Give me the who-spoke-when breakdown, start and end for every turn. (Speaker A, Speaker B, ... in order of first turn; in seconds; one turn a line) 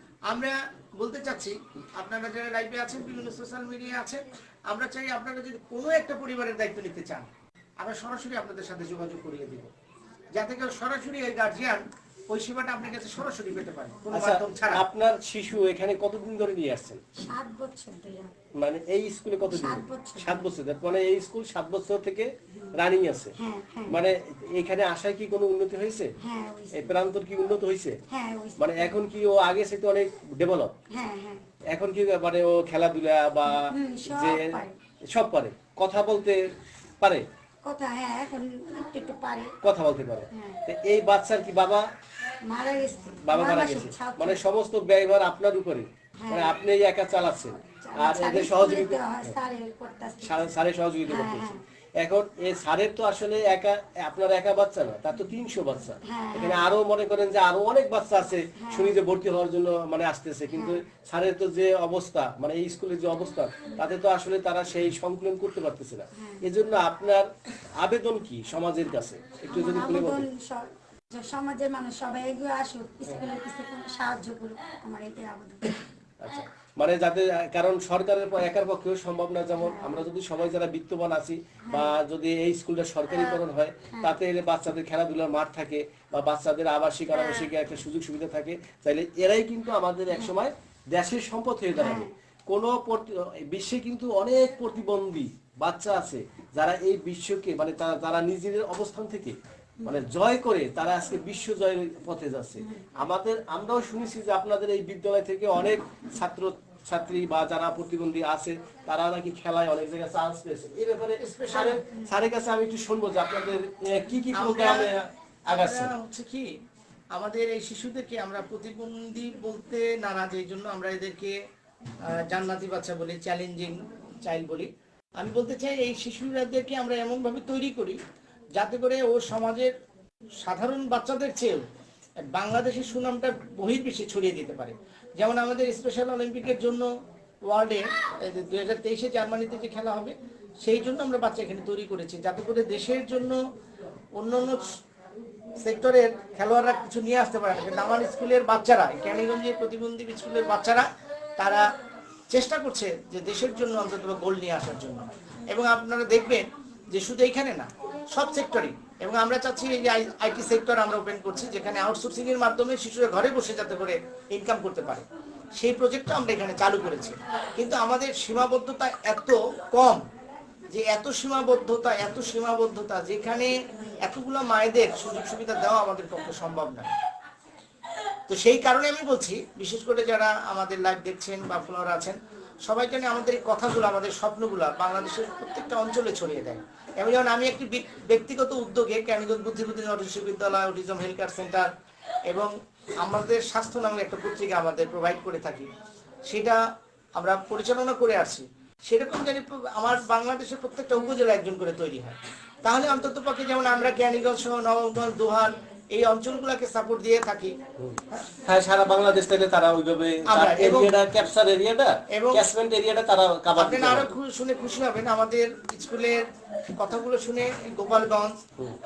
Speaker A: 0.3-7.3
Speaker A: 7.8-9.7
Speaker A: 10.3-14.8
Speaker B: 14.1-17.0
Speaker C: 17.2-18.3
Speaker B: 18.5-23.3
Speaker C: 19.5-20.5
Speaker C: 23.4-24.0
Speaker B: 23.9-26.1
Speaker C: 26.2-27.0
Speaker B: 26.7-28.0
Speaker C: 28.1-28.9
Speaker B: 28.6-30.7
Speaker C: 30.9-31.4
Speaker B: 31.7-37.2
Speaker C: 33.5-34.8
Speaker C: 37.6-39.5
Speaker B: 39.6-41.9
Speaker C: 40.3-40.6
Speaker C: 42.4-44.4
Speaker B: 43.2-49.4
Speaker C: 46.2-46.6
Speaker C: 47.7-51.6
Speaker B: 50.2-70.2
Speaker C: 56.0-56.7
Speaker C: 58.6-59.0
Speaker C: 60.5-60.8
Speaker C: 66.1-66.5
Speaker C: 69.5-75.8
Speaker B: 76.2-115.9
Speaker C: 79.6-80.1
Speaker C: 81.7-82.0
Speaker C: 83.9-84.2
Speaker C: 91.7-92.1
Speaker A: 111.2-111.7
Speaker A: 114.3-114.9
Speaker A: 115.5-116.5
Speaker A: 117.1-121.3
Speaker A: 122.1-128.0
Speaker A: 128.6-129.7
Speaker A: 130.4-131.6
Speaker A: 132.2-136.9
Speaker A: 137.4-143.4
Speaker A: 144.2-144.6
Speaker A: 145.6-150.9
Speaker A: 151.4-151.6
Speaker A: 152.3-165.1
Speaker A: 165.6-170.0
Speaker A: 170.7-176.9
Speaker A: 178.3-191.7
Speaker A: 192.3-195.7
Speaker A: 196.3-196.6
Speaker A: 197.2-207.5
Speaker B: 207.8-214.1
Speaker A: 210.3-210.9
Speaker A: 212.1-212.4
Speaker A: 213.6-216.2
Speaker A: 216.8-218.3